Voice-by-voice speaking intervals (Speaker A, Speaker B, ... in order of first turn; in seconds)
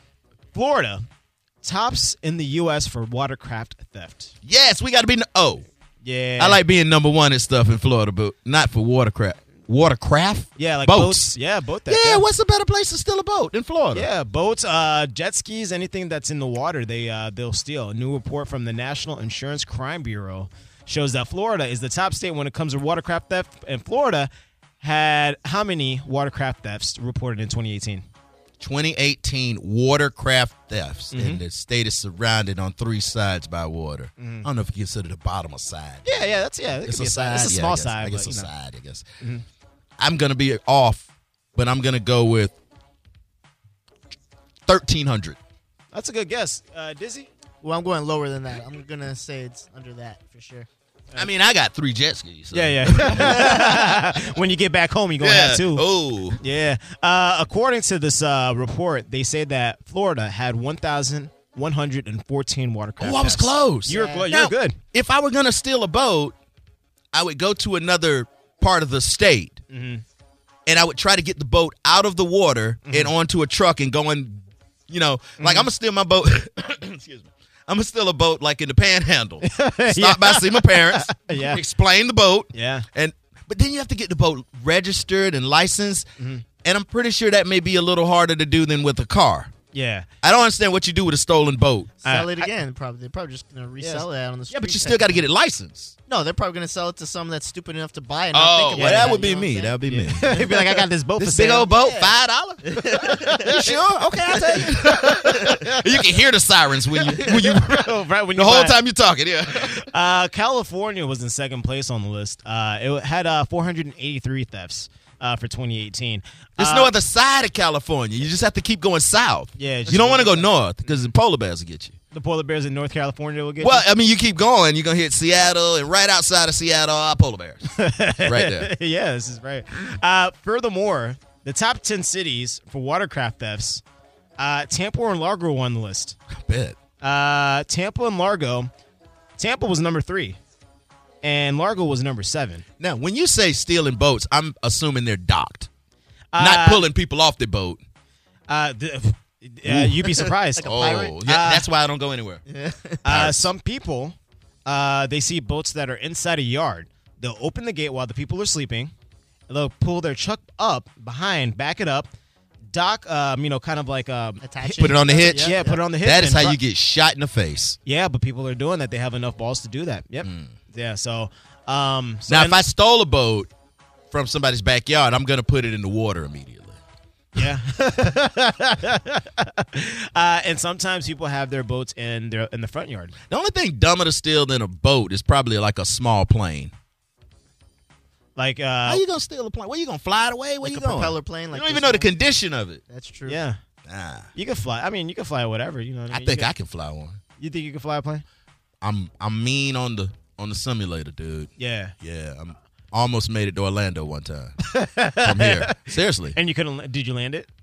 Speaker A: 0.5-1.1, 1.6-4.3, 6.0-6.6, 10.6-12.2, 13.9-24.3, 24.8-28.1, 31.1-31.4, 34.2-34.5, 36.0-38.5, 39.2-39.5, 45.9-47.3, 52.5-55.9, 56.4-64.8, 69.7-70.0, 72.8-73.1, 75.4-75.7, 79.4-81.6, 82.5-82.9, 86.2-86.4, 89.7-90.1, 92.0-92.5, 93.8-94.0, 98.8-99.2, 99.9-101.7, 103.1-103.7, 104.3-106.0, 106.9-108.8, 109.6-116.9, 119.6-120.5, 122.1-123.9, 127.7-133.8, 134.4-136.2, 137.0-138.7, 139.4-140.4, 141.2-142.6, 146.3-146.8, 148.5-151.7, 153.0-158.9, 159.5-162.1, 162.7-166.6, 167.9-172.6, 177.3-183.2, 188.4-189.0, 193.3-193.6, 194.3-196.5, 197.4-198.2, 201.6-201.9, 204.7-205.8, 206.3-207.5
Speaker B: 4.4-5.7, 6.4-11.4, 11.9-14.1, 28.6-36.3, 36.8-39.1, 40.0-42.5, 44.7-45.4, 51.1-53.9, 55.2-56.4, 63.0-66.3, 67.1-69.6, 70.7-86.1, 86.6-89.5, 90.2-92.0, 94.5-95.9, 98.3-100.5, 101.2-102.6, 103.5-109.9, 116.6-122.0, 123.6-128.7, 136.4-136.8, 142.8-145.7, 146.4-147.8, 149.7-150.0, 150.6-152.4, 153.1-153.5, 164.7-167.8, 170.2-170.5, 172.3-173.5, 174.1-176.8, 183.3-186.7, 188.8-192.8, 193.8-194.3, 196.1-197.2, 198.8-204.6, 205.2-206.4
Speaker C: 37.2-37.6, 47.6-50.7, 53.1-54.0, 63.9-64.3, 92.0-95.2, 96.1-100.9, 101.6-103.7, 104.6-105.2, 150.0-151.2, 152.5-153.0, 164.4-165.8, 190.6-192.1, 192.9-193.4